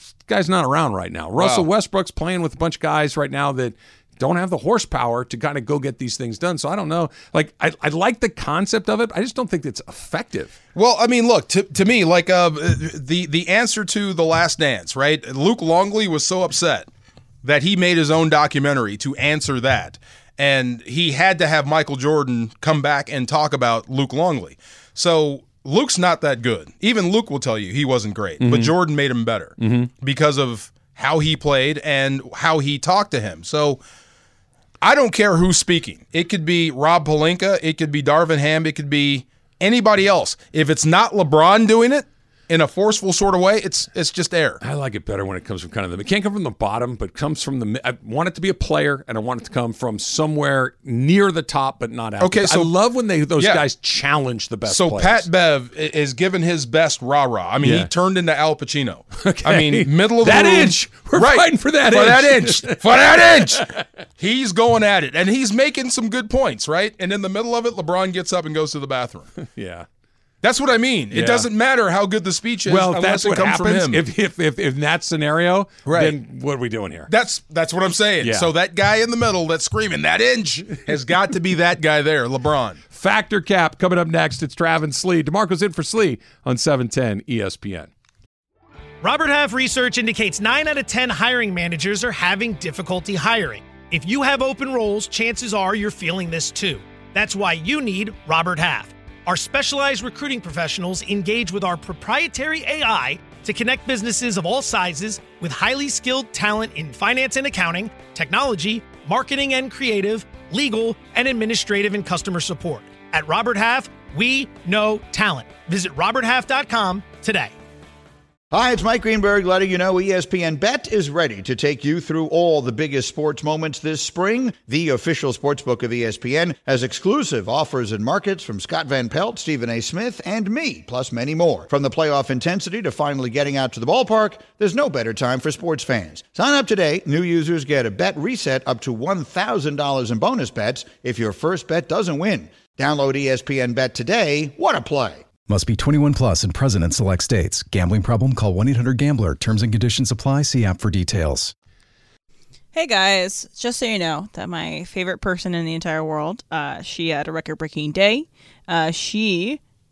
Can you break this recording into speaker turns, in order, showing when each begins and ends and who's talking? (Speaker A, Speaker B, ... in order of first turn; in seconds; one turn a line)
Speaker A: 0.3-10.6
Speaker B: 1.4-1.7
Speaker B: 10.8-16.9
Speaker B: 17.4-33.8
Speaker A: 28.4-28.7
Speaker A: 29.6-29.9
Speaker B: 34.8-44.6
Speaker A: 44.6-55.3
Speaker B: 52.2-52.7
Speaker B: 53.4-53.7
Speaker B: 54.7-69.3
Speaker A: 57.6-57.9
Speaker A: 59.1-63.8
Speaker A: 69.4-69.9
Speaker B: 70.4-74.0
Speaker A: 71.1-71.5
Speaker A: 72.7-77.1
Speaker B: 75.9-76.2
Speaker B: 77.1-82.8
Speaker A: 78.2-78.5
Speaker A: 82.9-87.9
Speaker C: 89.0-117.5
Speaker D: 118.5-145.2
Speaker E: 145.5-151.5
Speaker F: 152.7-159.6